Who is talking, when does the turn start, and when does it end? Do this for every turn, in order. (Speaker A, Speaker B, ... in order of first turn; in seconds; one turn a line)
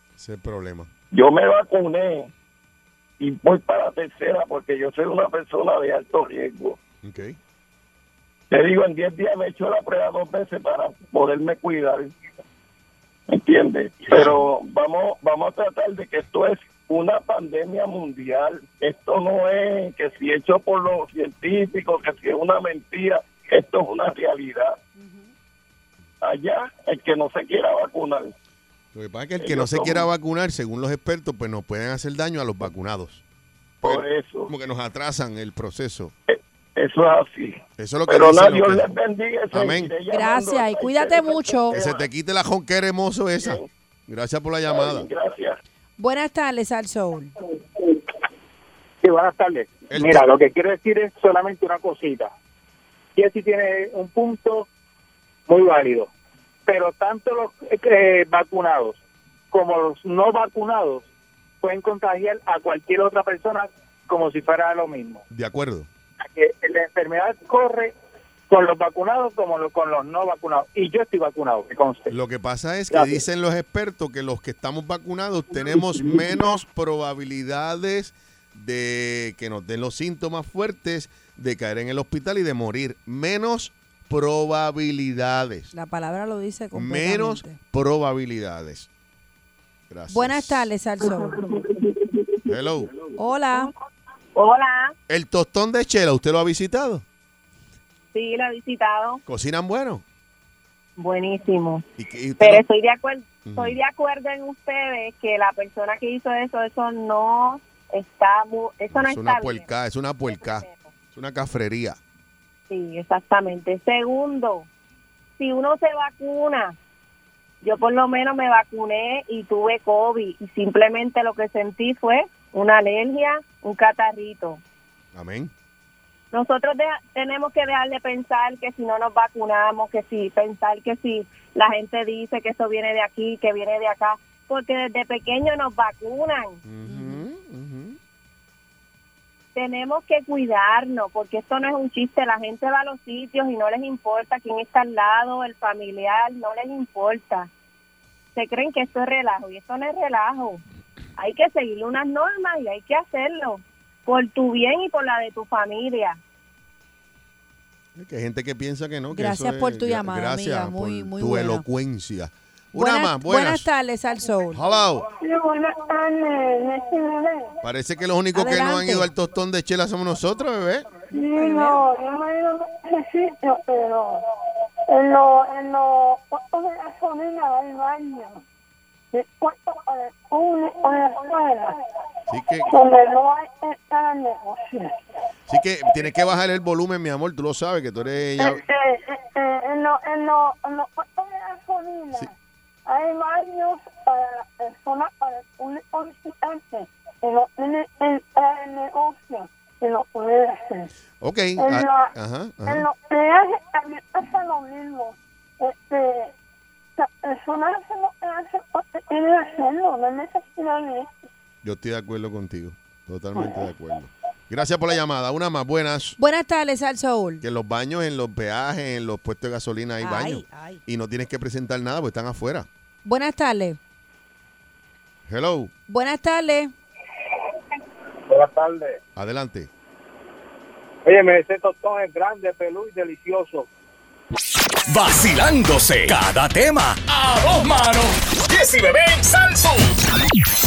Speaker A: 0.2-0.9
Speaker B: 1.1-2.3
Speaker B: 3.2-6.8
Speaker A: 7.0-7.4
Speaker B: 8.5-12.1
Speaker B: 13.3-24.8
Speaker A: 14.1-14.5
Speaker C: 25.0-25.3
Speaker B: 26.2-28.3
Speaker A: 28.9-33.2
Speaker B: 29.4-30.1
Speaker B: 33.8-34.5
Speaker A: 33.8-36.1
Speaker B: 36.3-42.0
Speaker A: 37.8-38.9
Speaker A: 39.5-39.9
Speaker C: 40.1-41.8
Speaker A: 41.7-45.1
Speaker B: 43.4-43.7
Speaker B: 44.7-45.6
Speaker C: 46.0-47.3
Speaker D: 49.0-52.3
Speaker A: 49.9-50.3
Speaker D: 53.1-54.7
Speaker D: 55.5-56.1
Speaker D: 56.6-59.0
Speaker D: 59.5-61.0
Speaker D: 61.6-65.2
Speaker A: 65.3-65.9
Speaker D: 66.3-67.9
Speaker D: 68.5-72.1
Speaker A: 72.1-85.7
Speaker D: 72.9-73.2
Speaker C: 85.7-87.6
Speaker A: 86.7-88.9
Speaker A: 89.9-90.7
Speaker C: 90.1-91.4
Speaker A: 92.5-92.9
Speaker C: 93.2-93.7
Speaker E: 94.3-94.9
Speaker A: 95.1-97.0
Speaker E: 98.1-99.2
Speaker A: 99.2-100.0
Speaker E: 101.0-101.9
Speaker A: 102.0-102.6
Speaker E: 102.4-109.7
Speaker A: 103.5-103.8
Speaker A: 108.9-112.0
Speaker E: 110.3-110.9
Speaker E: 112.7-114.7
Speaker E: 115.4-116.8
Speaker E: 117.6-124.6
Speaker A: 125.1-125.5
Speaker E: 126.3-136.6
Speaker A: 136.6-138.0
Speaker C: 136.8-137.2
Speaker E: 139.5-147.5
Speaker E: 148.3-150.6
Speaker E: 151.2-156.2
Speaker A: 157.9-163.7
Speaker C: 159.1-161.6
Speaker C: 162.7-164.6
Speaker A: 164.5-165.0
Speaker F: 165.2-167.5
Speaker A: 167.6-170.9
Speaker C: 168.3-169.1
Speaker F: 171.1-174.2
Speaker C: 171.3-171.8
Speaker F: 174.9-178.4
Speaker F: 179.1-181.8
Speaker A: 182.3-182.7
Speaker F: 182.7-184.9
Speaker A: 185.5-188.6
Speaker F: 188.4-192.3
Speaker F: 192.8-200.9
Speaker A: 201.2-202.9
Speaker F: 201.6-202.1
Speaker F: 202.7-206.3
Speaker F: 207.0-211.1
Speaker A: 211.6-216.2
Speaker C: 216.2-217.4
Speaker A: 217.4-222.7
Speaker C: 220.0-220.8
Speaker C: 223.0-223.8
Speaker A: 225.3-225.7
Speaker C: 225.9-226.7
Speaker D: 228.3-228.9
Speaker A: 229.2-229.7
Speaker D: 231.1-233.7
Speaker G: 234.9-240.0